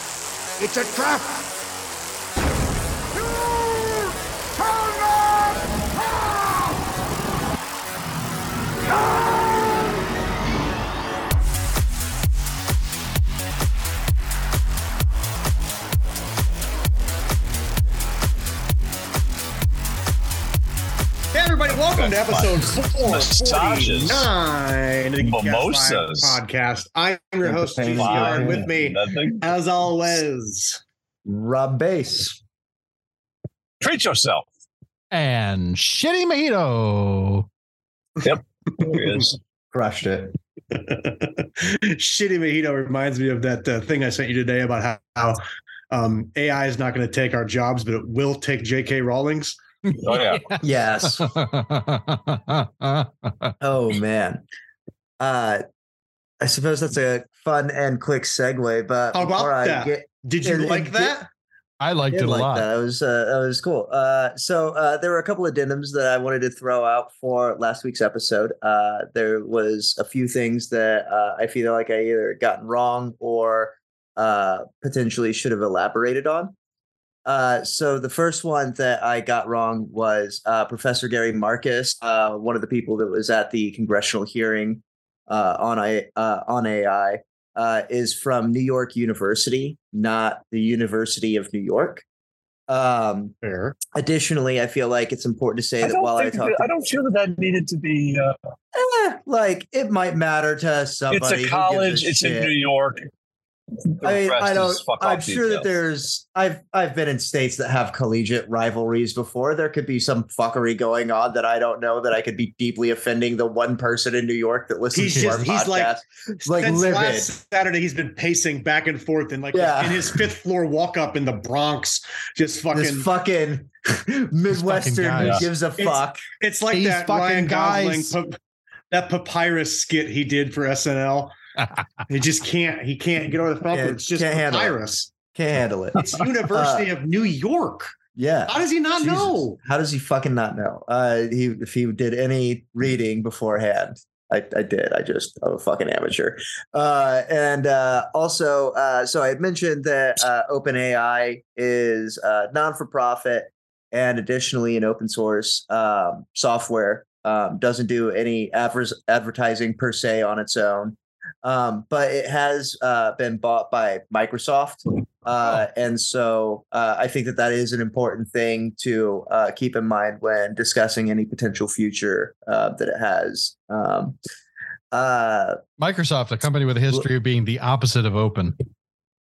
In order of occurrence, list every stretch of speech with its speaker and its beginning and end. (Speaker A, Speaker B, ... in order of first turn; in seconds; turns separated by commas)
Speaker A: 0.6-1.4, Speaker A: 3.1-6.8, Speaker A: 8.9-9.9, Speaker B: 21.3-30.8, Speaker C: 21.7-24.3, Speaker C: 25.2-26.4, Speaker D: 27.4-28.7, Speaker C: 27.9-29.5, Speaker D: 31.3-32.4, Speaker C: 33.8-34.5, Speaker E: 35.1-37.5, Speaker C: 38.2-39.4, Speaker D: 39.7-40.4, Speaker B: 40.7-49.5, Speaker C: 50.0-50.6, Speaker E: 50.1-53.5, Speaker D: 50.6-51.3, Speaker D: 53.6-54.4, Speaker D: 55.2-55.6, Speaker D: 56.4-61.2, Speaker B: 59.1-61.3, Speaker E: 61.8-62.7, Speaker D: 62.1-76.5, Speaker D: 77.3-92.0, Speaker D: 92.7-93.3, Speaker B: 93.4-93.8, Speaker D: 93.9-96.7, Speaker C: 95.8-98.4, Speaker D: 98.7-102.5, Speaker C: 101.1-103.1, Speaker C: 103.9-105.7, Speaker D: 104.0-117.3, Speaker B: 114.9-123.1, Speaker D: 119.5-120.3, Speaker D: 122.7-126.2, Speaker E: 124.5-125.5, Speaker C: 125.2-125.5, Speaker B: 125.8-128.4, Speaker E: 126.7-128.2, Speaker B: 128.9-131.3, Speaker E: 131.6-132.0, Speaker B: 132.1-135.1, Speaker D: 133.7-134.8, Speaker D: 135.3-136.9, Speaker B: 136.1-137.9, Speaker D: 138.2-174.2, Speaker B: 138.5-139.6, Speaker D: 174.9-175.6, Speaker E: 175.8-178.6